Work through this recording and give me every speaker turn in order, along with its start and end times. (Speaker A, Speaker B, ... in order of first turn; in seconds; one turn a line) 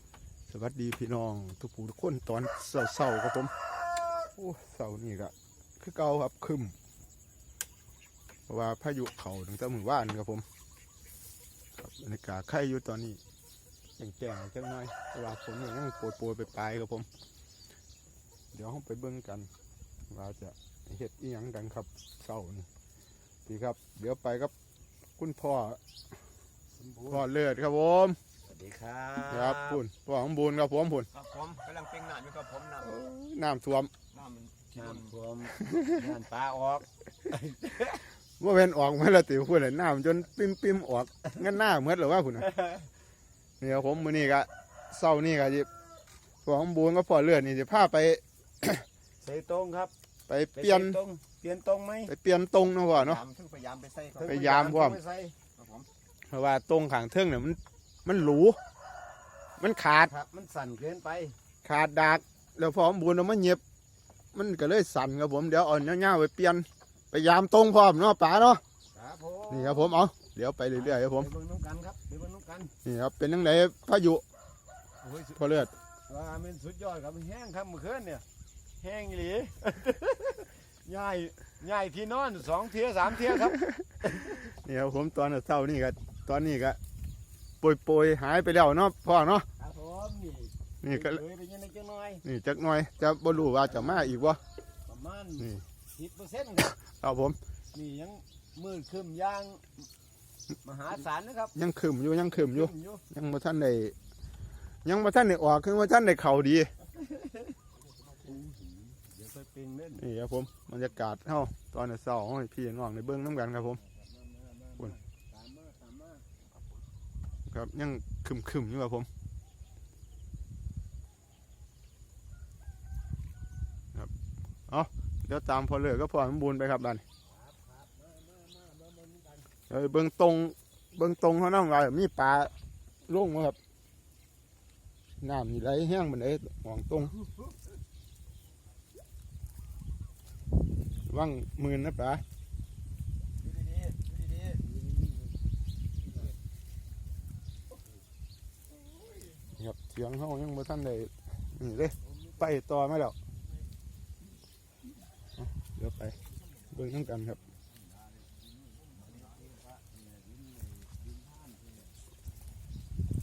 Speaker A: 0.5-3.5
Speaker A: 4.4-6.8
Speaker A: 8.5-10.4
Speaker A: 11.8-13.2
Speaker A: 14.0-17.1
Speaker A: 18.5-19.5
Speaker A: 20.1-22.7
Speaker A: 23.5-24.5
Speaker A: 25.2-25.8
Speaker B: 26.8-27.2
Speaker A: 27.1-28.2
Speaker B: 28.5-29.8
Speaker A: 29.3-31.1
Speaker C: 31.1-33.0
Speaker A: 32.8-33.9
Speaker C: 34.1-35.1
Speaker B: 34.8-38.0
Speaker A: 35.6-36.0
Speaker A: 38.4-42.5
Speaker B: 42.4-42.9
Speaker A: 43.6-45.7
Speaker A: 46.5-48.8
Speaker B: 49.2-49.9
Speaker A: 50.3-51.0
Speaker B: 50.5-52.1
Speaker A: 52.1-53.2
Speaker C: 52.9-54.4
Speaker B: 54.1-55.4
Speaker A: 54.3-55.0
Speaker C: 55.6-55.9
Speaker A: 56.3-58.6
Speaker A: 59.6-60.1
Speaker B: 60.0-61.4
Speaker A: 61.6-63.6
Speaker A: 64.3-68.6
Speaker B: 68.9-70.0
Speaker A: 69.5-71.3
Speaker B: 70.8-72.7
Speaker A: 72.9-74.2
Speaker B: 75.0-75.4
Speaker A: 75.4-75.7
Speaker B: 76.1-78.2
Speaker B: 78.8-84.5
Speaker A: 83.3-83.8
Speaker A: 84.4-86.8
Speaker A: 87.6-89.5
Speaker B: 89.6-92.2
Speaker A: 90.8-91.2
Speaker A: 92.2-94.4
Speaker B: 93.4-94.1
Speaker B: 94.9-96.7
Speaker A: 96.8-97.4
Speaker B: 97.7-99.7
Speaker B: 100.6-101.5
Speaker A: 101.5-103.9
Speaker B: 102.4-103.0
Speaker A: 104.8-106.7
Speaker B: 107.0-107.5
Speaker B: 108.0-110.0
Speaker A: 110.0-113.8
Speaker B: 113.8-116.4
Speaker A: 117.5-119.1
Speaker A: 124.7-127.0
Speaker B: 127.3-129.5
Speaker A: 129.7-132.5
Speaker A: 133.1-133.6
Speaker A: 135.2-137.1
Speaker A: 141.1-142.2
Speaker B: 143.7-145.3
Speaker C: 143.8-144.4
Speaker A: 149.6-153.2
Speaker A: 155.4-156.2
Speaker A: 156.7-157.4
Speaker C: 158.4-159.2
Speaker B: 158.9-161.8